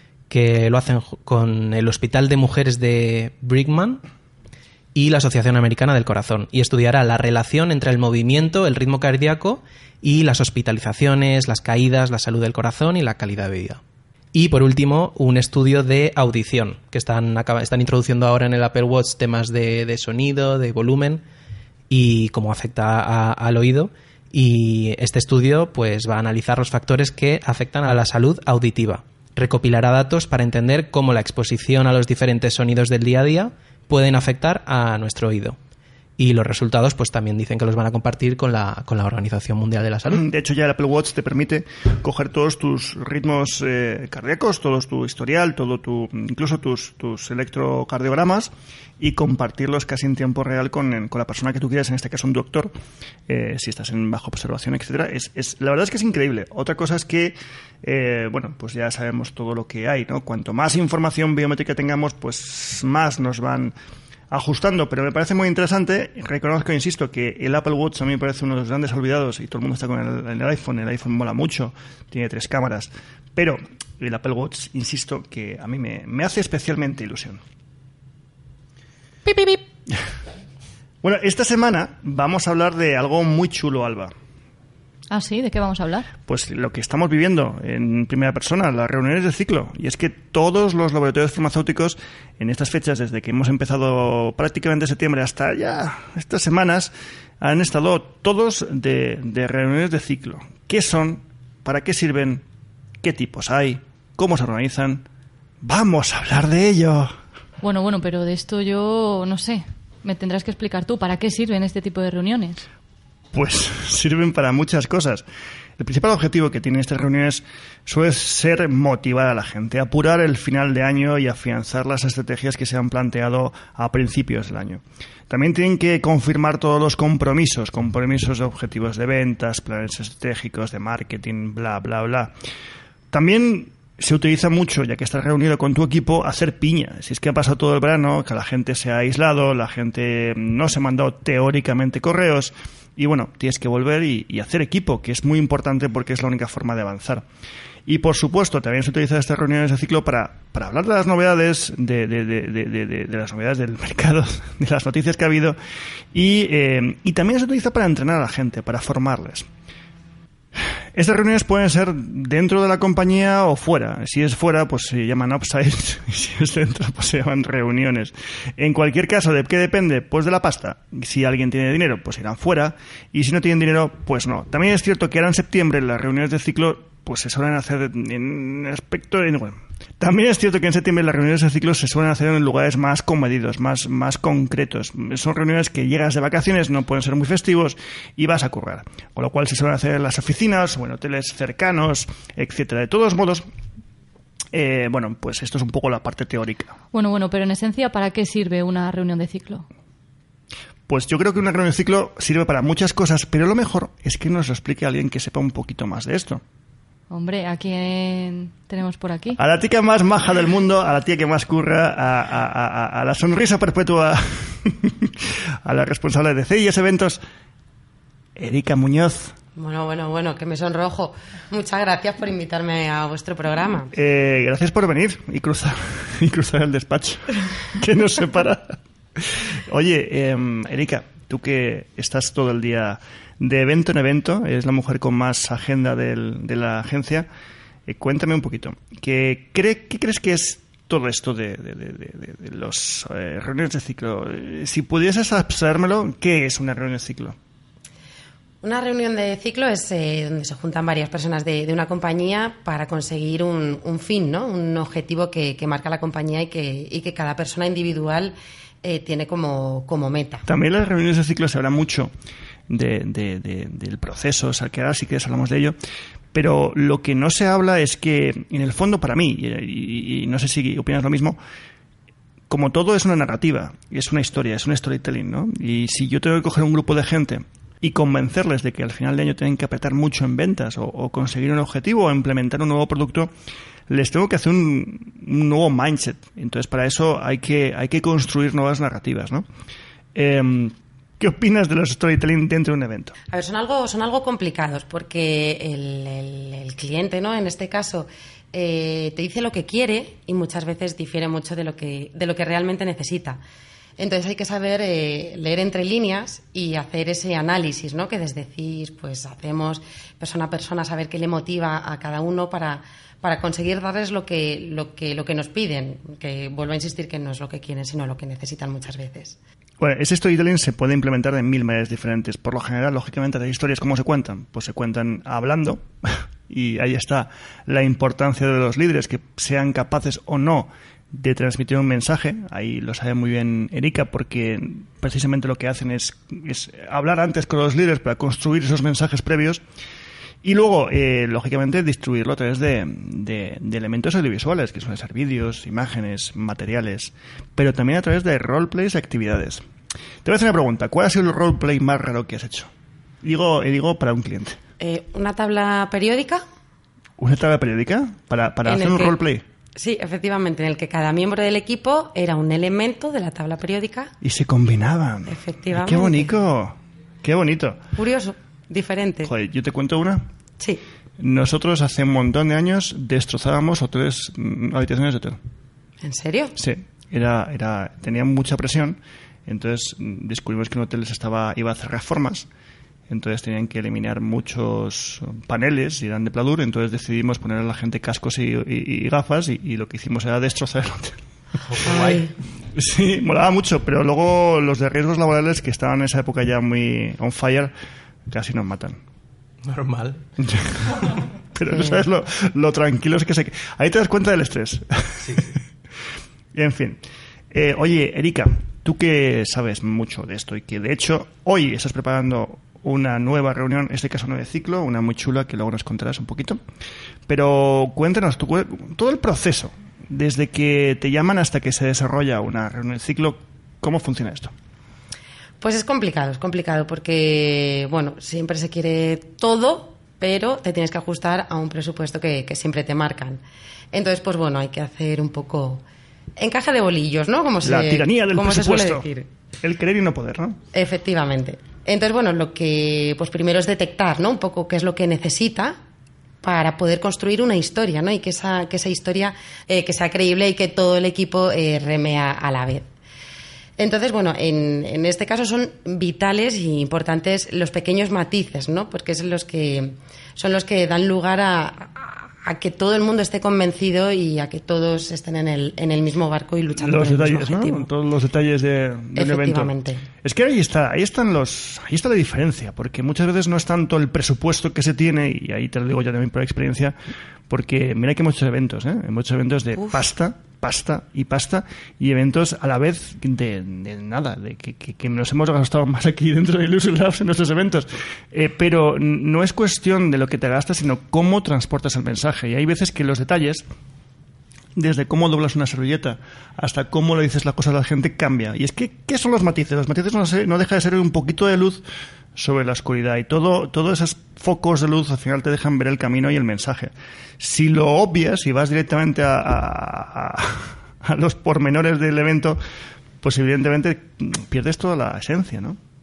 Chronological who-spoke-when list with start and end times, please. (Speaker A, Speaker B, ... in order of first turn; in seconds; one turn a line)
Speaker A: 0.3-4.0
Speaker A: 4.9-13.8
Speaker A: 14.3-21.2
Speaker A: 21.9-35.6
Speaker A: 36.2-40.2
Speaker B: 40.0-52.7
Speaker B: 53.3-63.7
Speaker B: 64.3-77.4
Speaker B: 79.3-80.0
Speaker B: 81.0-84.1
Speaker C: 85.1-86.1
Speaker B: 86.3-102.4
Speaker B: 103.0-105.0
Speaker B: 105.6-107.2
Speaker C: 107.6-112.7
Speaker B: 113.3-115.2
Speaker B: 115.8-132.3
Speaker B: 133.1-147.2
Speaker B: 147.8-155.6
Speaker B: 156.1-159.5
Speaker B: 160.6-193.4
Speaker B: 194.5-196.8
Speaker C: 196.9-199.7
Speaker B: 200.9-206.4
Speaker C: 207.1-209.4
Speaker B: 209.4-217.2
Speaker B: 218.3-219.3
Speaker D: 219.6-223.9
Speaker B: 223.9-237.3
Speaker B: 237.9-247.4
Speaker D: 248.6-260.5
Speaker B: 260.5-262.1
Speaker B: 262.7-265.7
Speaker B: 266.3-271.4
Speaker B: 272.5-283.3
Speaker B: 283.9-289.4
Speaker B: 290.1-293.1
Speaker D: 293.3-303.4
Speaker D: 304.0-319.4
Speaker B: 319.8-339.6
Speaker B: 340.4-349.6
Speaker B: 350.2-352.7
Speaker B: 353.2-354.6
Speaker D: 354.8-356.4
Speaker B: 357.2-359.4
Speaker D: 358.6-359.2
Speaker D: 359.8-364.1
Speaker B: 364.2-367.8
Speaker D: 365.3-366.3
Speaker D: 367.9-369.3
Speaker B: 369.2-370.2
Speaker B: 371.2-375.4
Speaker D: 376.0-376.6
Speaker B: 376.6-382.5
Speaker B: 383.1-391.2
Speaker A: 391.7-392.2
Speaker D: 391.8-392.3
Speaker B: 391.8-397.7
Speaker B: 398.3-399.0
Speaker A: 399.6-400.2
Speaker B: 400.4-405.6
Speaker A: 405.2-405.5
Speaker B: 406.5-407.0
Speaker B: 407.5-416.6
Speaker B: 417.3-424.5
Speaker D: 425.6-433.4
Speaker D: 433.9-435.8
Speaker D: 436.4-439.3
Speaker B: 437.6-439.1
Speaker B: 439.6-440.6
Speaker D: 440.7-445.8
Speaker D: 446.4-452.9
Speaker D: 453.8-467.9
Speaker B: 466.8-469.7
Speaker D: 469.1-470.0
Speaker B: 470.2-476.9
Speaker B: 477.5-493.6
Speaker B: 494.7-501.8
Speaker B: 502.3-512.6
Speaker B: 513.2-515.8